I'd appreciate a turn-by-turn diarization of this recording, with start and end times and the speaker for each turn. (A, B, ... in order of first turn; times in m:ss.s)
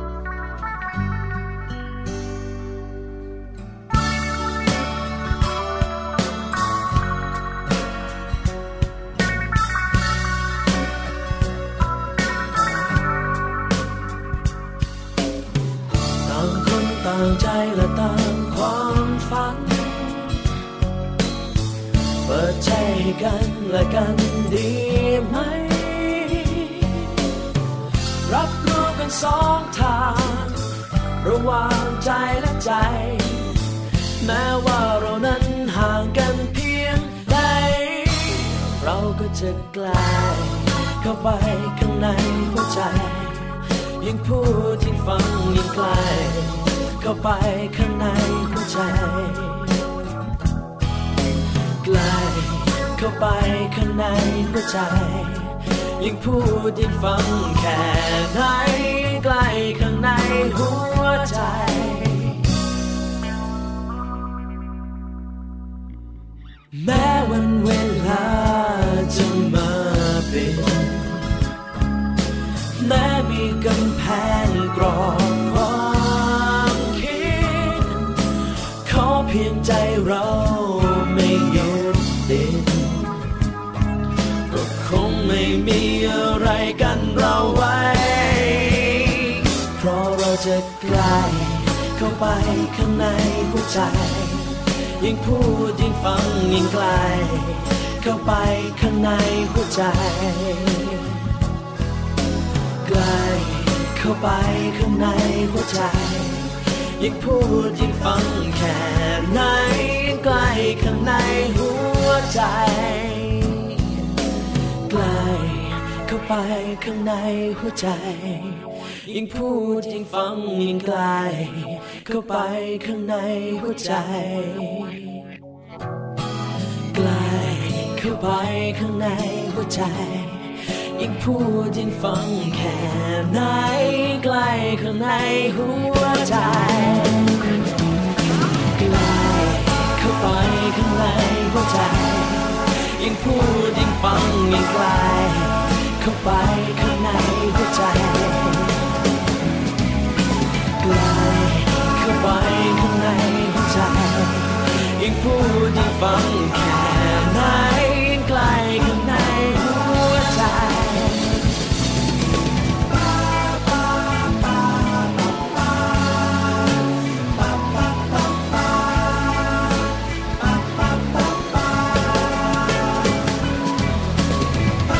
0:16.2-0:20.3 A
0:22.2-0:27.0 A
0:28.2-0:30.6 A
0:31.2-0:33.5 A
0:34.2-0:49.7 A
0:51.8-1:02.4 A
1:06.7-1:11.2 A
1:12.8-1:18.0 A
1:18.8-1:23.2 A
1:24.5-1:41.0 A
1:42.8-1:53.8 A
1:54.9-2:05.1 A
2:06.9-2:17.4 A
2:18.8-2:28.8 A
2:30.8-2:41.3 A